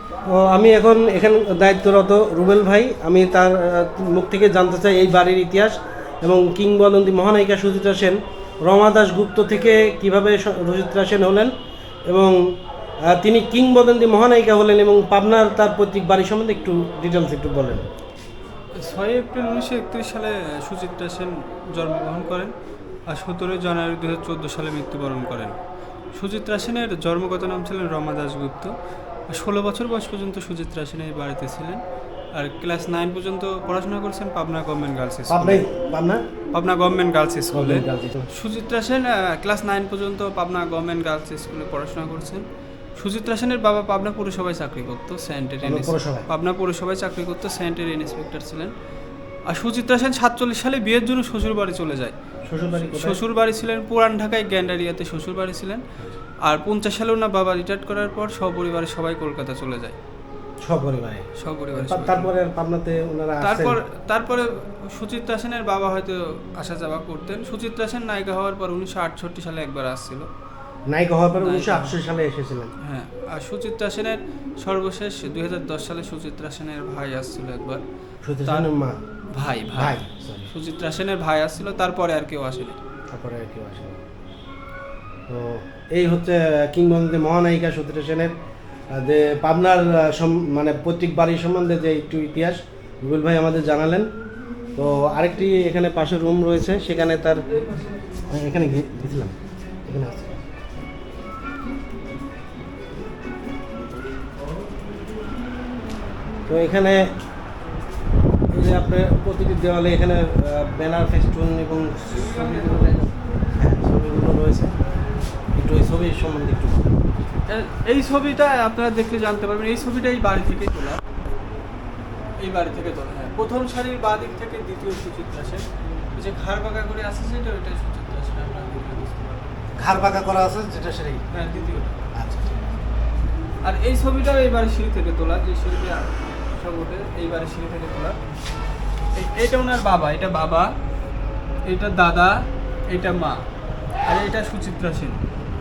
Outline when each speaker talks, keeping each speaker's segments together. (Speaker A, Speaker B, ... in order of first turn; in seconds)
Speaker A: 0.2-11.5, 12.1-12.4, 13.0-17.8, 35.3-36.2, 37.5-38.3, 45.6-46.3, 52.5-53.2, 60.6-63.8, 70.9-72.7, 78.2-79.0, 79.8-80.5, 83.1-84.0, 85.3-88.3, 88.9-94.1, 94.8-97.5, 98.3-100.4, 106.5-107.1, 108.5-113.0, 113.5-114.7, 115.5-117.0, 129.8-131.2, 132.1-132.6
Speaker B: 18.7-22.5, 23.1-25.6, 26.1-28.7, 29.3-31.8, 32.3-35.6, 36.5-42.4, 43.0-48.7, 49.5-52.1, 52.8-55.8, 56.4-60.0, 61.4-62.3, 63.4-70.3, 71.4-72.0, 72.8-77.8, 79.3-80.0, 80.5-82.8, 112.1-113.1, 117.4-121.0, 122.4-129.5, 131.3-132.1, 133.6-138.2, 139.1-140.7, 141.7-142.4, 142.9-143.4, 144.0-145.2